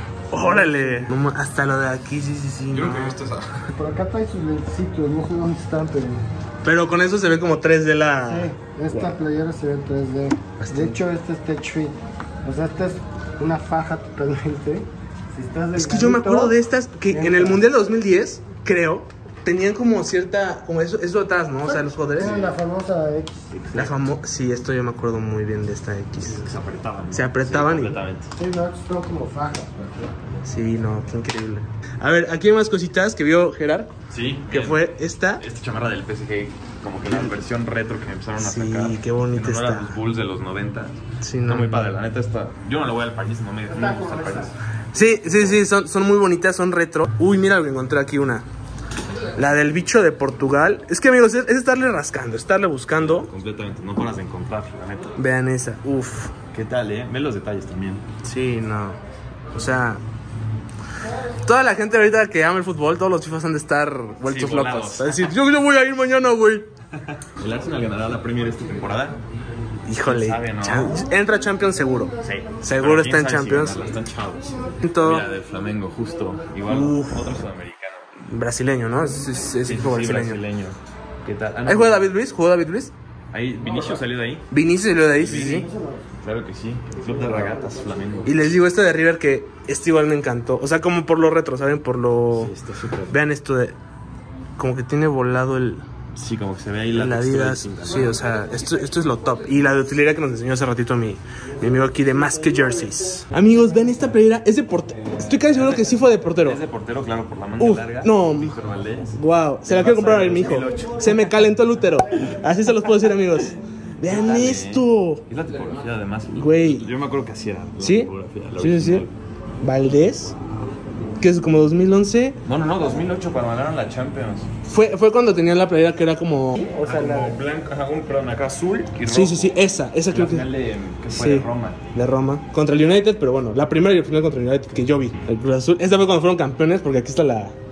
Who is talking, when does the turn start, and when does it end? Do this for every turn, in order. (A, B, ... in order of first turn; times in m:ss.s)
0:00.3-0:03.2 A
0:00.3-0:01.1 B
0:02.7-0:03.7 C
0:03.7-0:06.3 B
0:06.6-0:09.2 A
0:08.3-0:16.6 B
0:10.6-0:11.0 A
0:15.8-0:22.5 A
0:17.1-0:17.6 B
0:21.6-0:23.5 B
0:22.2-0:22.5 C
0:23.5-0:24.0 C
0:23.7-0:26.5 A
0:26.2-0:28.3 C
0:27.1-0:28.0 A
0:28.4-0:30.2 B
0:30.4-0:33.9 A
0:34.1-0:44.5 C
0:34.5-0:35.4 A
0:37.1-0:37.4 A
0:38.4-0:40.0 A
0:41.2-0:41.9 A
0:43.7-0:44.5 B
0:44.9-0:48.4 A
0:45.1-0:45.6 C
0:49.2-0:53.3 A
0:53.0-0:55.2 C
0:55.2-0:56.3 A
0:56.5-0:58.0 C
0:58.2-0:59.0 A
0:59.5-1:00.0 A
1:01.4-1:06.7 A
1:04.2-1:05.3 C
1:07.1-1:09.2 C
1:09.9-1:13.9 A
1:10.0-1:11.1 C
1:10.8-1:12.6 B
1:12.2-1:18.0 C
1:14.2-1:16.6 B
1:14.8-1:15.3 A
1:16.7-1:17.4 A
1:18.2-1:20.4 A
1:19.6-1:22.1 C
1:21.7-1:22.9 A
1:23.3-1:24.4 C
1:23.6-1:24.0 B
1:24.5-1:25.7 A
1:25.2-1:25.7 C
1:25.2-1:26.1 B
1:26.2-1:28.4 C
1:27.0-1:28.3 B
1:28.2-1:32.5 A
1:32.3-1:33.2 C
1:33.1-1:33.8 A
1:34.6-1:35.9 A
1:36.2-1:38.1 C
1:36.9-1:46.6 A
1:38.0-1:39.1 B
1:41.6-1:44.0 B
1:45.0-1:51.5 C
1:47.6-1:48.6 A
1:49.2-1:55.2 A
1:50.6-1:51.2 B
1:54.0-1:59.1 C
1:56.4-1:56.9 A
1:57.8-1:59.1 A
1:59.6-2:00.3 A
2:01.2-2:02.4 A
2:02.4-2:04.5 C
2:04.7-2:06.7 A
2:06.6-2:07.4 B
2:06.8-2:11.9 C
2:09.1-2:10.5 A
2:11.1-2:17.6 A